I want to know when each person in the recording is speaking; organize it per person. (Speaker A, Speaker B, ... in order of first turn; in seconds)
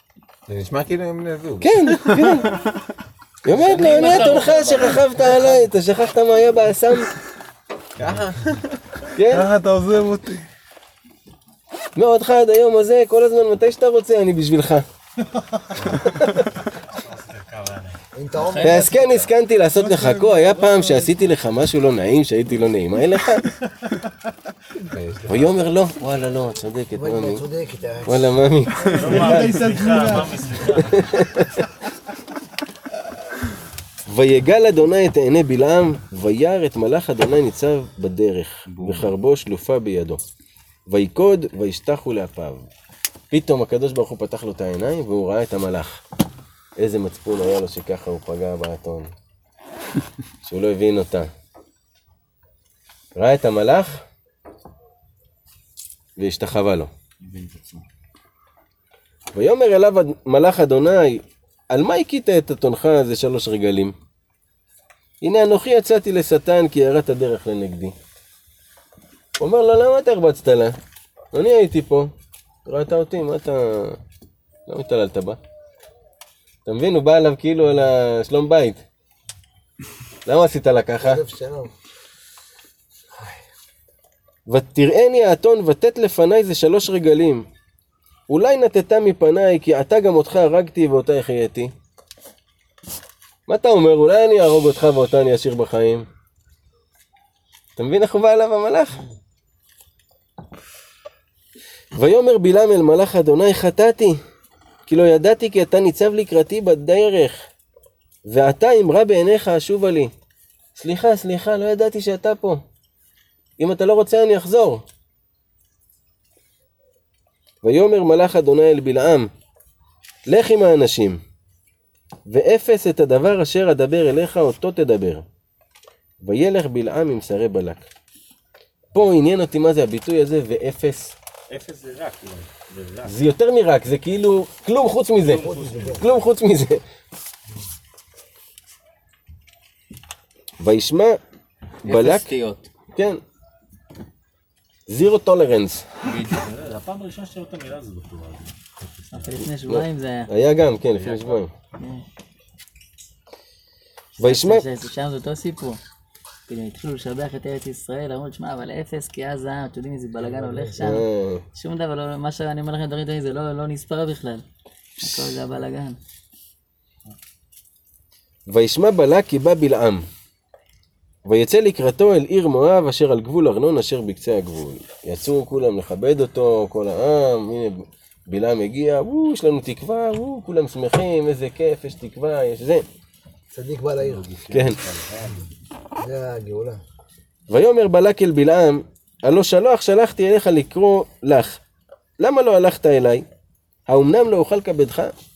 Speaker A: 0.5-2.6, 8.0-8.8, 24.8-25.6, 38.7-39.1
Speaker B: 1.6-2.6, 3.4-7.1, 9.1-9.5, 11.9-14.8, 15.9-16.4, 18.6-23.5, 25.3-27.4, 28.1-29.7, 30.8-31.5, 34.0-40.2, 40.9-42.7, 43.3-46.0, 46.8-49.1, 50.4-51.3, 53.1-54.0, 56.2-56.9, 59.3-63.9, 65.2-68.0, 69.4-70.8, 71.3-72.1, 72.7-74.0, 74.7-75.4, 76.7-78.8, 80.2-81.2, 84.5-87.5, 88.3-91.7, 93.5-96.1, 97.8-99.0, 101.9-104.2, 104.9-107.5, 108.2-110.1, 110.8-112.6, 113.6-114.8, 117.6-119.3, 120.3-121.2, 122.3-125.2, 126.2-127.9, 128.9-131.2, 133.1-135.4, 136.0-136.8, 140.6-141.2, 141.8-142.3, 142.9-143.2, 144.9-145.9, 149.4-151.5, 154.2-154.6, 160.8-161.4, 165.0-165.4, 168.5-170.1, 171.2-182.8, 184.5-184.8, 187.5-191.6, 192.2-193.2, 193.9-195.1
Speaker C: 3.5-5.6, 18.4-19.3, 57.2-57.8, 141.8-142.7, 146.1-146.4, 149.1-150.3, 151.8-152.0, 154.2-155.8, 156.5-164.4, 165.0-166.0
Speaker D: 9.3-10.4, 19.8-21.0, 29.1-30.3
Speaker E: 16.7-18.0, 28.8-31.1, 131.5-133.1, 135.2-136.2, 146.3-148.5, 149.1-149.4, 151.0-151.4, 184.0-185.5
Speaker F: 18.1-18.9, 26.9-28.4, 81.0-81.7, 135.2-136.1, 183.5-184.3, 186.0-186.8